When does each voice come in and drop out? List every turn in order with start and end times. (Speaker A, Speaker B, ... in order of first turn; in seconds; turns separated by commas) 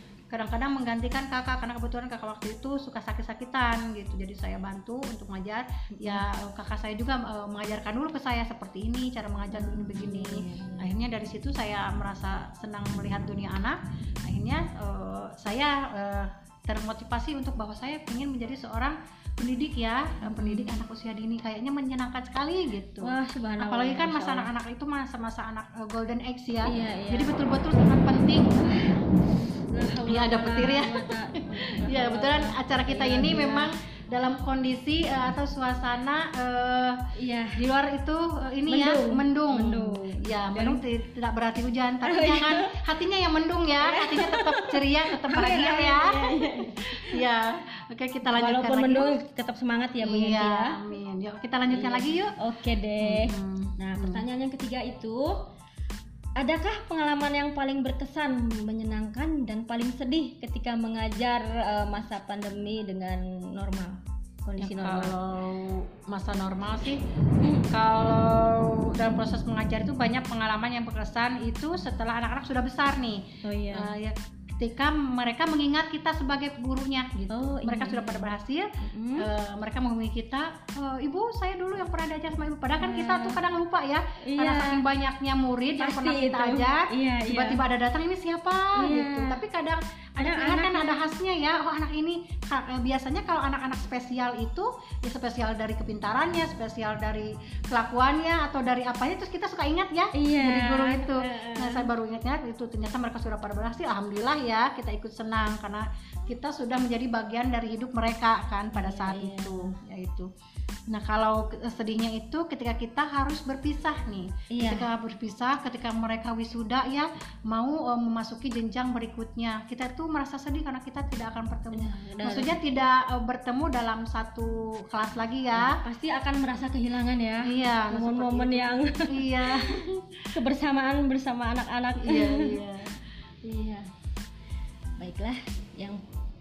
Speaker A: 0.3-28.6, Speaker B: 9.5-10.9, Speaker B: 20.4-20.7, Speaker B: 23.0-24.5, Speaker B: 26.6-27.3, Speaker B: 28.6-29.1, Speaker B: 29.7-33.7, Speaker A: 30.1-31.1, Speaker A: 31.6-37.0, Speaker B: 37.2-37.5, Speaker A: 37.5-46.2, Speaker B: 38.7-40.8, Speaker B: 42.0-42.8, Speaker B: 43.9-44.7, Speaker B: 45.2-47.2, Speaker A: 46.8-49.2, Speaker B: 48.3-50.7, Speaker A: 50.0-52.3, Speaker B: 51.7-55.3, Speaker A: 53.0-54.2, Speaker B: 56.4-65.2, Speaker A: 64.6-67.0, Speaker B: 67.4-67.7, Speaker A: 67.7-110.3, Speaker B: 73.4-73.9, Speaker B: 77.3-79.3, Speaker B: 82.8-83.4, Speaker B: 84.2-84.8, Speaker B: 85.8-87.6, Speaker B: 88.8-89.4, Speaker B: 90.2-91.1, Speaker B: 100.2-101.9, Speaker B: 108.7-109.7, Speaker A: 110.9-125.8, Speaker B: 114.5-114.9, Speaker B: 121.7-122.6, Speaker B: 125.5-129.8, Speaker A: 127.5-129.9, Speaker B: 130.3-132.6, Speaker A: 132.0-133.0, Speaker B: 133.4-133.9, Speaker B: 135.0-136.0